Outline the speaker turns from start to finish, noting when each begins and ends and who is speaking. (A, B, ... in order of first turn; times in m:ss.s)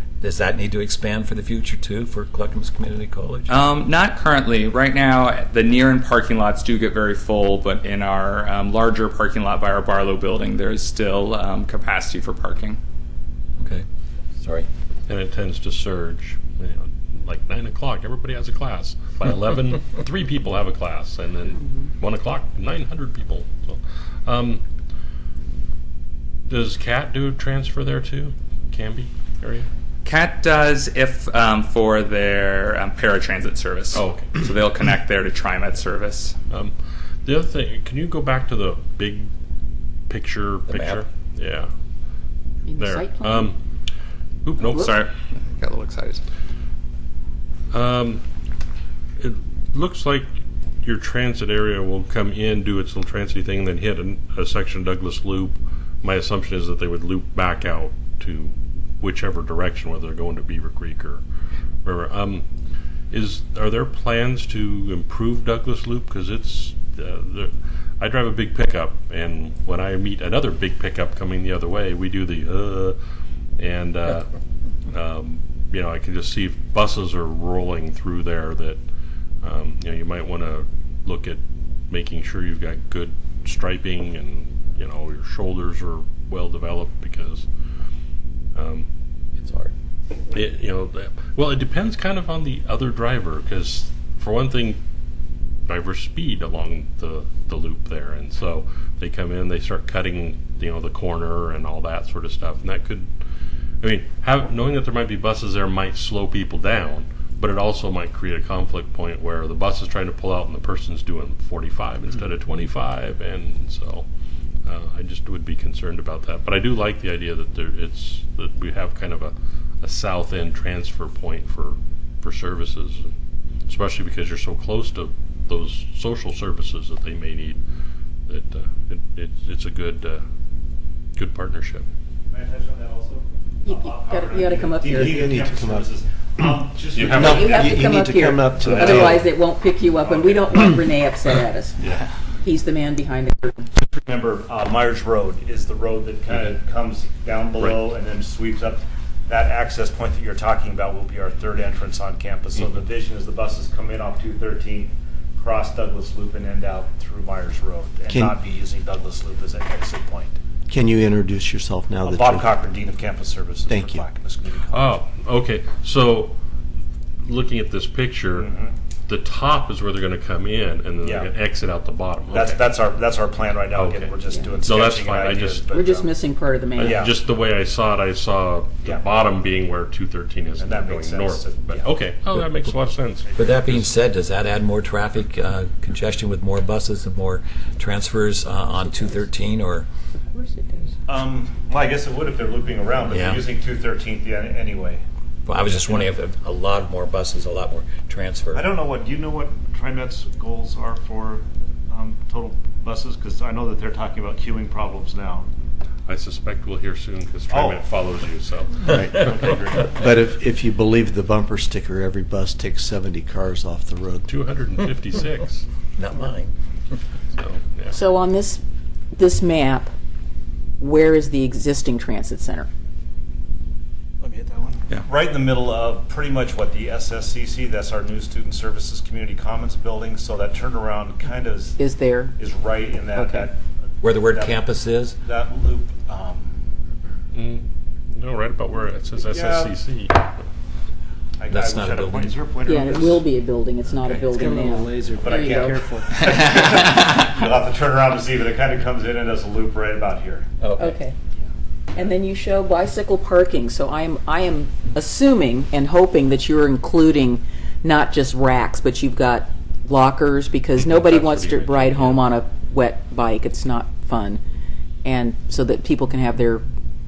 0:00.2-0:03.5 A
0:03.5-0:12.8 B
0:13.6-0:13.8 A
0:14.4-0:14.7 A
0:15.1-0:24.6 C
0:26.5-0:29.7 C
0:30.0-0:36.4 B
0:33.9-0:34.4 C
0:37.2-0:39.3 C
0:40.1-0:41.7 C
0:40.7-0:41.0 A
0:42.7-0:43.5 D
0:42.8-0:43.6 C
0:44.4-0:45.0 C
0:44.6-0:44.9 D
0:44.8-0:46.2 B
0:47.7-0:48.2 C
0:49.2-0:50.3 C
0:50.8-1:01.2 C
1:01.8-1:02.4 C
1:03.1-1:13.0 C
1:13.6-1:14.3 C
1:14.9-1:18.8 C
1:19.4-1:27.5 C
1:28.6-1:28.9 C
1:29.4-1:29.7 A
1:30.3-1:34.8 C
1:35.7-1:43.1 C
1:43.8-1:54.1 C
1:54.6-2:03.1 C
2:03.7-2:07.6 C
2:08.3-2:10.2 C
2:11.2-2:11.9 C
2:12.3-2:17.7 E
2:13.6-2:15.2 D
2:15.0-2:15.9 F
2:16.9-2:17.7 C
2:17.0-2:19.2 F
2:17.2-2:21.8 D
2:18.6-2:19.2 C
2:20.0-2:20.4 E
2:22.4-2:23.7 D
2:23.8-2:40.4 E
2:38.1-2:38.4 F
2:40.7-2:42.6 F
2:42.0-2:45.0 E
2:43.7-2:44.1 F
2:44.7-2:46.4 C
2:47.2-2:48.5 C
2:48.3-2:48.7 E
2:49.1-2:52.7 C
2:51.0-2:51.3 E
2:52.3-2:56.1 E
2:53.7-2:55.7 C
2:55.7-2:57.0 D
2:56.8-2:57.2 E
2:56.8-3:03.9 C
3:00.6-3:02.0 E
3:03.4-3:09.9 A
3:10.3-3:10.9 D
3:11.1-3:15.0 E
3:13.1-3:13.4 A
3:15.5-3:18.6 A
3:18.5-3:25.5 E
3:26.1-3:29.9 C
3:27.5-3:27.8 E
3:28.9-3:34.3 F
3:29.4-3:29.7 E
3:34.3-3:35.6 C
3:36.0-3:36.5 A
3:37.3-3:38.0 C
3:37.9-3:38.6 D
3:39.1-3:39.9 D
3:40.8-3:42.7 D
3:44.2-3:51.8 E
3:51.8-3:52.4 D
3:52.4-3:53.6 E
3:53.1-3:53.5 D
3:54.0-3:55.2 A
3:54.3-3:54.6 E
3:55.2-3:56.5 E
3:57.3-4:00.4 C
3:59.2-3:59.8 E
4:01.4-4:03.2 E
4:01.5-4:02.4 A
4:02.7-4:05.8 D
4:04.3-4:06.5 F
4:05.2-4:10.5 E
4:10.6-4:11.0 A
4:10.8-4:11.1 D
4:12.0-4:24.4 D
4:20.8-4:22.2 C
4:25.0-4:26.6 D